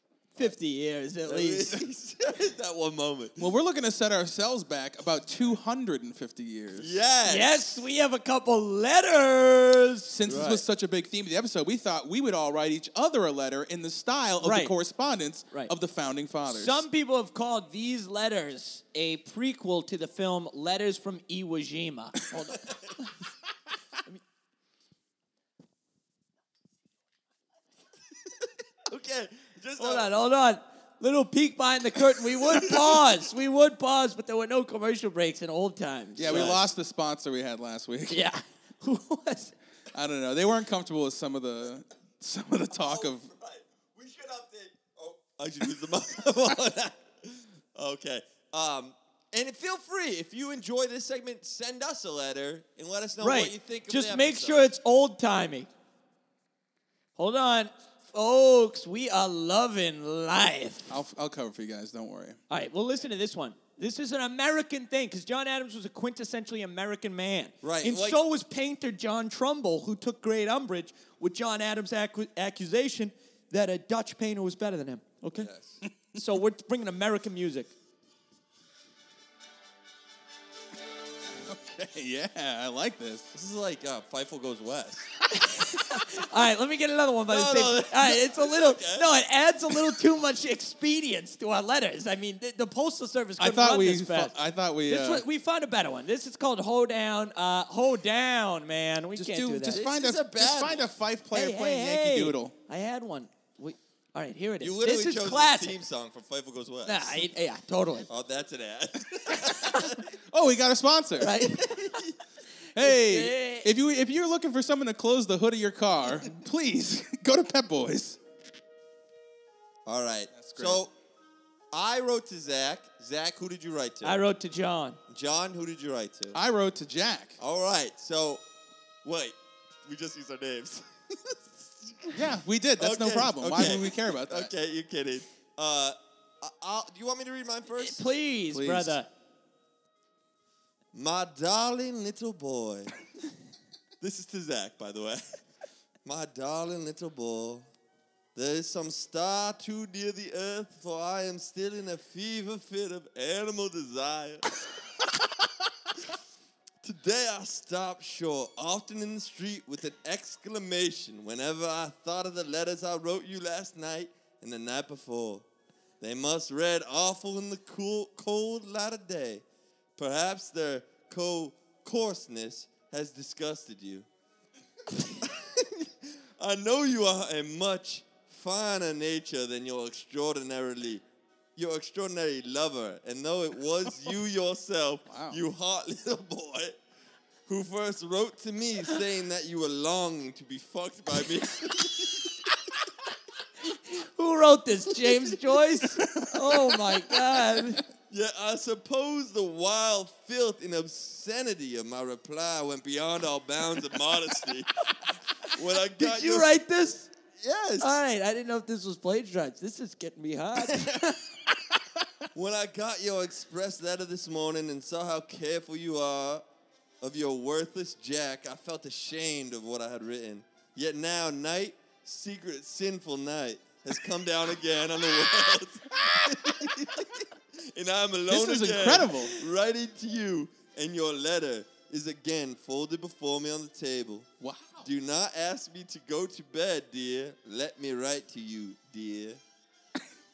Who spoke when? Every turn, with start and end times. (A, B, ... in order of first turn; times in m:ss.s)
0:00.3-0:01.8 A
0:01.2-0:03.4 B
0:03.4-0:06.9 C
0:06.8-0:07.6 B
0:07.2-0:10.1 A
0:10.1-0:16.8 C
0:10.3-0:10.6 B
0:14.4-0:14.7 A
0:16.5-0:23.1 A
0:28.8-0:30.1 B
0:29.8-0:36.6 A
0:32.5-0:32.9 B
0:36.2-0:38.2 C
0:36.2-0:36.6 B
0:38.1-0:39.5 A
0:39.9-0:43.2 C
0:42.7-0:54.7 B
0:53.2-0:55.7 A
0:57.2-1:00.9 A
1:00.9-1:02.4 C
1:02.5-1:15.5 A
1:07.6-1:08.2 B
1:15.3-1:15.8 B
1:16.1-1:17.7 A
1:21.5-1:23.3 C
1:23.3-1:25.1 B
1:25.3-1:34.3 A
1:27.3-1:29.1 B
1:33.4-1:35.2 C
1:34.9-1:39.8 A
1:39.1-1:42.5 C
1:39.7-1:40.9 B
1:41.3-1:45.8 A
1:44.6-1:47.3 B
1:46.8-1:48.1 A
1:48.1-1:50.0 B
1:49.6-1:51.4 C
1:51.2-1:52.0 A
1:51.6-1:52.1 B
1:52.7-1:58.2 C
1:52.8-1:53.7 A
1:59.8-2:00.9 B
2:00.3-2:00.8 C
2:01.7-2:04.2 B
2:04.0-2:05.0 A
2:05.1-2:06.4 B
2:06.3-2:07.4 C
2:07.4-2:08.4 B
2:09.0-2:12.2 B
2:12.1-2:14.5 C
2:12.8-2:18.0 B
2:17.8-2:19.1 A
2:18.5-2:19.0 C
2:20.9-2:22.9 B
2:24.0-2:25.4 B
2:26.0-2:27.7 B
2:28.3-2:34.5 B
2:36.8-2:45.4 B
2:46.0-2:49.4 B
2:50.0-2:54.1 B
2:54.9-3:01.0 B
3:01.6-3:06.8 B
3:05.1-3:05.4 C
3:07.5-3:12.4 B
3:13.6-3:17.8 A
3:16.0-3:17.0 C
3:18.1-3:24.8 B
3:25.4-3:26.5 B
3:26.0-3:27.1 A
3:27.4-3:28.0 B
3:27.8-3:31.1 A
3:32.3-3:36.4 B
3:37.0-3:54.3 B
3:46.0-3:46.5 C
3:48.3-3:49.4 C
3:54.4-3:54.8 C
3:54.8-3:59.4 B